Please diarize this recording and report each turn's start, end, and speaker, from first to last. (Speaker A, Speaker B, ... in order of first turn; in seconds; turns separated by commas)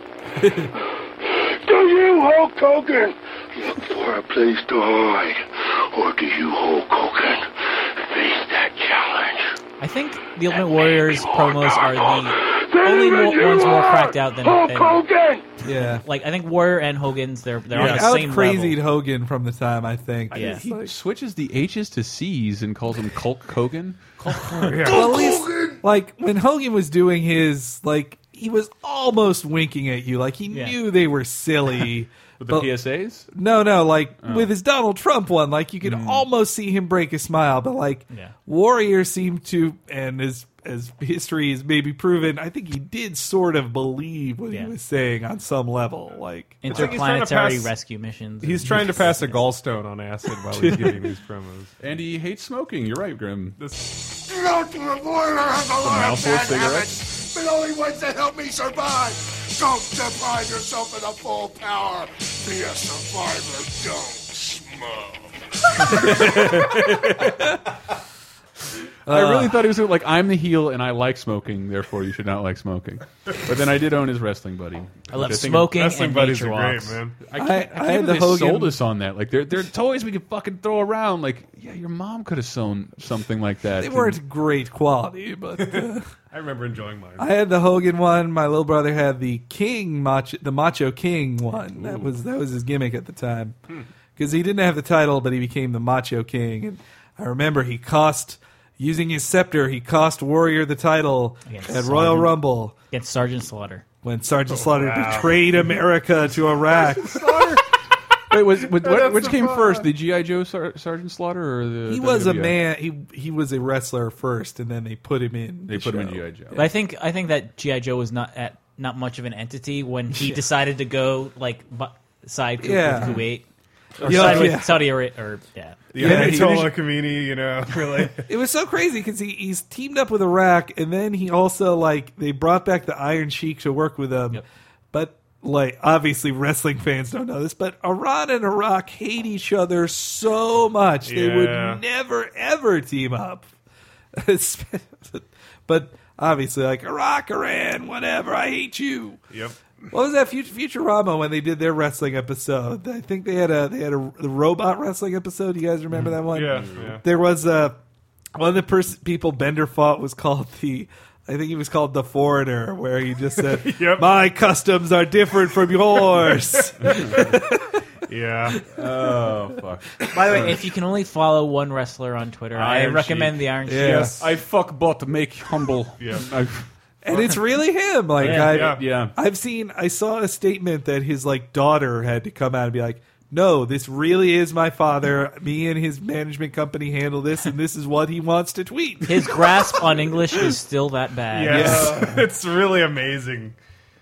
Speaker A: 1.2-9.6, Speaker B: 9.8-15.0, Speaker A: 11.0-15.4, Speaker C: 15.6-16.1, Speaker B: 16.0-18.8, Speaker C: 17.7-20.9, Speaker D: 17.8-18.0, Speaker B: 20.3-20.6, Speaker E: 20.4-24.1, Speaker B: 24.2-24.8, Speaker D: 24.6-25.1, Speaker F: 24.8-25.8, Speaker C: 24.9-32.7, Speaker B: 30.5-30.8, Speaker E: 32.4-33.3, Speaker C: 33.3-47.0, Speaker E: 34.2-34.5, Speaker E: 35.8-36.3, Speaker B: 46.6-49.5, Speaker D: 46.7-47.7, Speaker D: 48.4-51.7, Speaker C: 50.5-51.0, Speaker E: 51.8-53.6, Speaker D: 53.6-53.9, Speaker F: 54.3-64.7, Speaker E: 55.8-57.0, Speaker C: 65.9-67.5, Speaker C: 69.1-69.7, Speaker E: 69.1-75.7, Speaker B: 75.1-77.0, Speaker D: 75.7-77.2, Speaker E: 77.2-84.2, Speaker C: 77.3-78.8, Speaker C: 83.8-86.1, Speaker D: 85.6-87.3, Speaker C: 87.2-93.6, Speaker E: 91.8-92.1, Speaker C: 94.2-102.8, Speaker B: 101.5-103.8, Speaker C: 104.0-107.4, Speaker D: 104.5-105.6, Speaker E: 107.1-107.6, Speaker E: 108.3-112.6, Speaker C: 111.9-116.3, Speaker E: 115.7-116.7, Speaker B: 116.5-123.5, Speaker C: 122.6-123.2, Speaker D: 124.0-124.6, Speaker C: 124.0-124.8, Speaker B: 124.0-126.3, Speaker D: 125.9-128.2, Speaker C: 126.0-126.8, Speaker C: 128.2-143.5, Speaker D: 141.0-141.8, Speaker C: 144.1-149.2, Speaker D: 149.3-149.6, Speaker C: 149.9-157.8, Speaker D: 156.3-157.0, Speaker E: 156.5-157.0, Speaker C: 158.3-167.8, Speaker D: 163.5-164.1, Speaker D: 166.2-167.2, Speaker E: 166.8-167.3, Speaker D: 168.1-168.6, Speaker E: 168.7-170.5, Speaker B: 170.1-174.1, Speaker E: 172.6-173.3, Speaker C: 173.7-174.2, Speaker D: 173.8-174.2, Speaker E: 174.2-176.7, Speaker D: 176.0-176.3, Speaker C: 177.0-189.5, Speaker B: 178.2-178.5, Speaker E: 178.2-179.1, Speaker D: 178.3-178.8, Speaker B: 189.0-191.8, Speaker D: 191.3-193.6, Speaker C: 191.5-192.2, Speaker E: 191.6-192.2